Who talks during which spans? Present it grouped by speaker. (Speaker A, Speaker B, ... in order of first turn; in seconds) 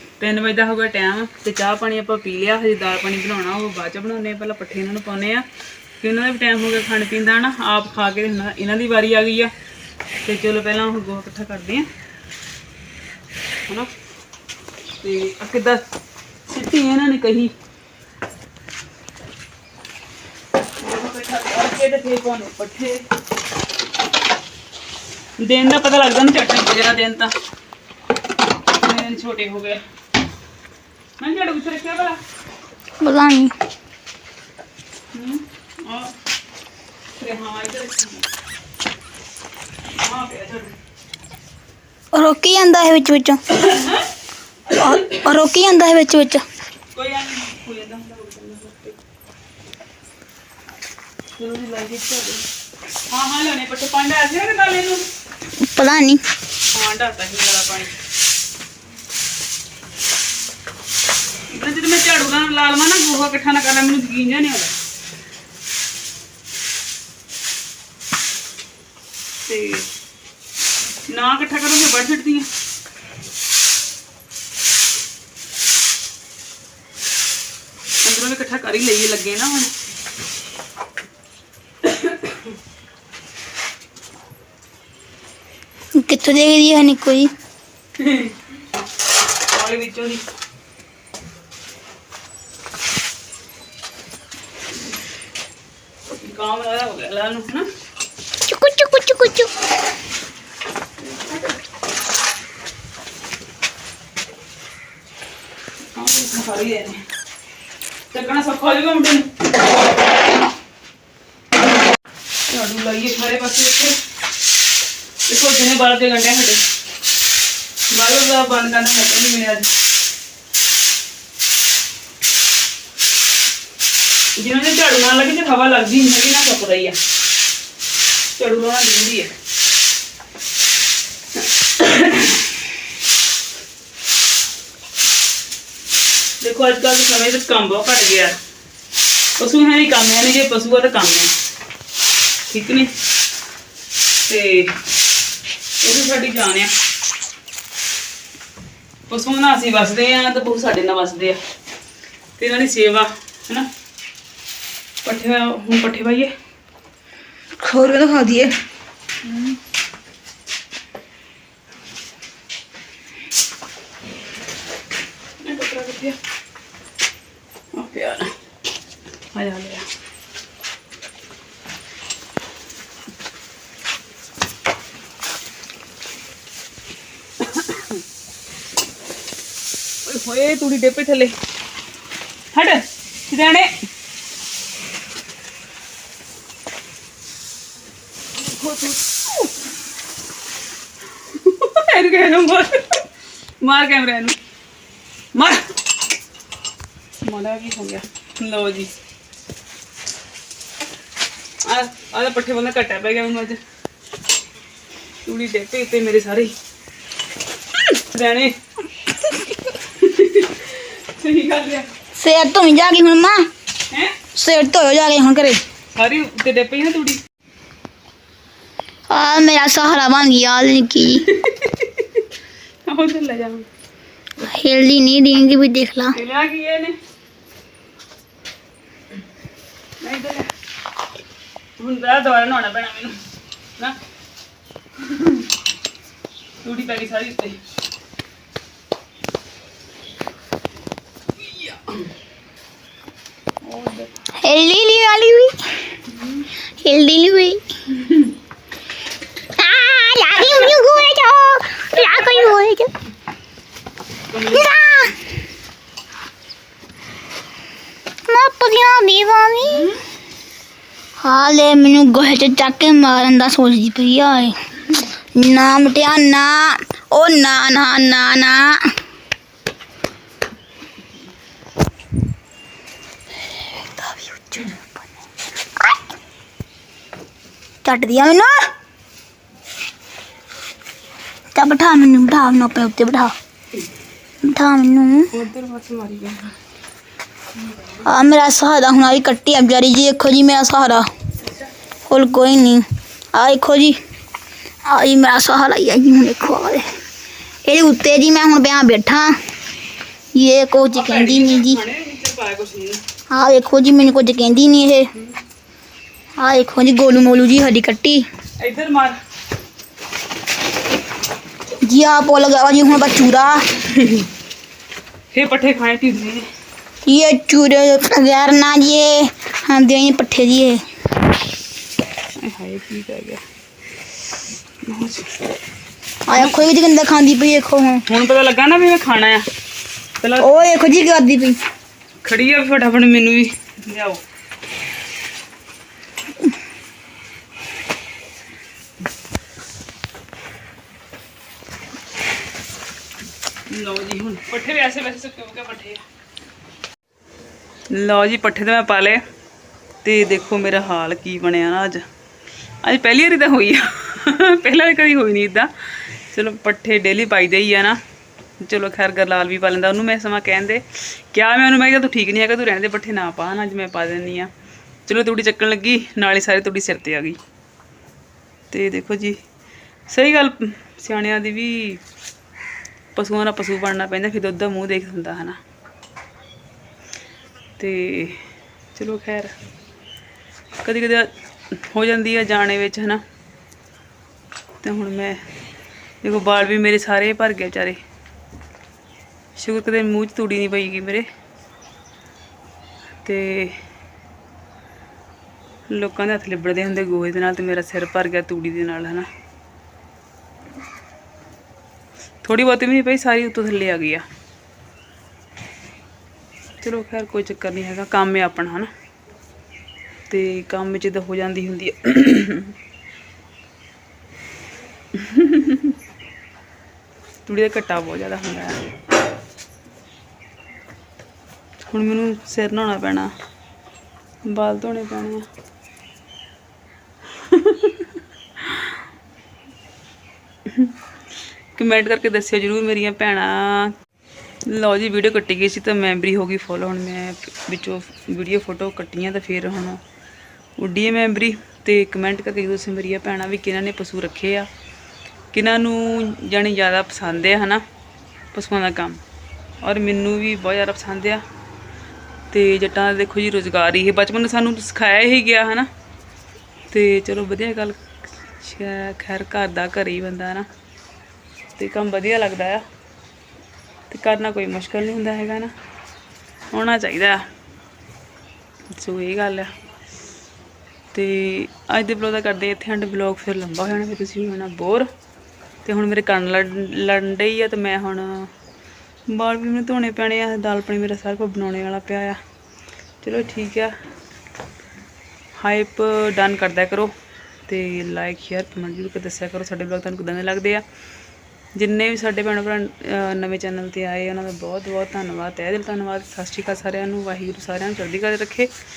Speaker A: 0.2-5.5, 6.0-9.5, 10.2-11.9, 15.0-15.8, 16.5-17.5, 20.8-23.0, 25.4-27.3, 28.7-29.8, 31.2-32.2, 35.1-36.1, 37.2-38.3, 40.0-40.7, 43.5-44.0, 46.9-49.0, 51.4-52.4, 53.1-55.0, 56.7-57.9, 61.5-64.7, 69.5-69.9, 71.1-72.5, 78.0-79.7, 81.8-82.5, 88.0-88.3, 89.5-90.2, 96.2-97.7, 101.0-101.4, 105.9-107.0, 108.1-109.4, 112.5-114.0, 115.3-116.6, 117.9-119.7, 124.4-127.0, 128.3-129.3, 131.8-132.5, 136.4-138.4, 139.4-141.3, 142.5-142.9, 144.2-144.8, 145.8-146.7, 149.1-151.4, 152.4-153.7, 155.0-156.3, 159.2-159.5, 165.4-166.2, 167.7-168.3, 169.3-169.9, 177.4-178.0, 180.1-181.3, 182.5-183.7, 188.4-189.4, 191.3-193.0, 193.6-194.4, 195.3-195.6, 197.2-198.9, 201.6-203.6, 205.2-206.5, 207.8-211.9, 213.9-214.2, 215.9-217.2, 221.2-222.1, 222.8-223.7, 226.1-226.9, 230.0-230.5, 231.8-233.2, 235.0-235.5, 236.6-237.6, 241.4-242.0, 243.6-244.1, 246.1-246.4, 247.9-248.3, 251.9-252.5, 254.3-254.7, 259.7-260.0, 285.3-286.5, 300.9-303.0, 308.6-309.1, 313.9-314.3, 315.3-316.4, 322.4-323.4, 324.8-325.4, 326.3-326.6, 328.1-329.4, 330.2-330.7, 332.2-334.2, 343.7-346.0, 347.9-349.2, 350.0-352.0, 352.8-355.7, 356.3-358.0, 358.6-364.5, 365.1-367.4, 368.7-369.4, 370.1-372.0, 373.1-375.6, 377.8-378.4, 378.9-379.5, 380.8-383.2, 384.8-385.4, 386.2-388.0, 389.6-391.3, 393.2-393.8, 395.9-399.3, 402.4-404.2, 406.8-408.9, 410.3-412.7, 415.1-415.9, 417.4-418.8, 421.9-423.3, 424.5-425.4, 427.4-428.9, 430.7-430.9, 431.7-433.9, 434.7-440.0, 440.8-444.7, 445.5-447.8, 448.5-449.2, 449.8-451.4, 452.5-455.9, 456.9-460.7, 461.8-462.8, 464.1-465.7, 466.7-467.4, 468.9-469.7, 471.1-475.1, 475.8-478.5, 479.3-482.4, 483.2-483.9, 485.6-487.1, 487.7-490.8, 491.8-498.7
Speaker B: 33.0-33.5, 42.1-43.4, 44.7-46.4, 55.6-56.2, 85.9-87.3, 98.5-99.5, 157.6-158.6, 212.2-213.4, 214.3-215.6, 219.1-221.2, 224.4-226.2, 244.4-245.7, 246.8-247.6, 249.6-252.9, 254.4-255.2, 258.3-259.9, 261.2-264.6, 265.3-268.9, 273.8-274.9, 277.8-278.5, 281.5-283.3, 284.4-285.3, 288.0-291.1, 292.1-294.0, 294.9-296.9, 297.6-299.4, 300.3-301.8, 303.3-305.1, 306.4-308.2, 311.8-313.6, 317.0-320.8, 326.3-328.0, 330.4-331.6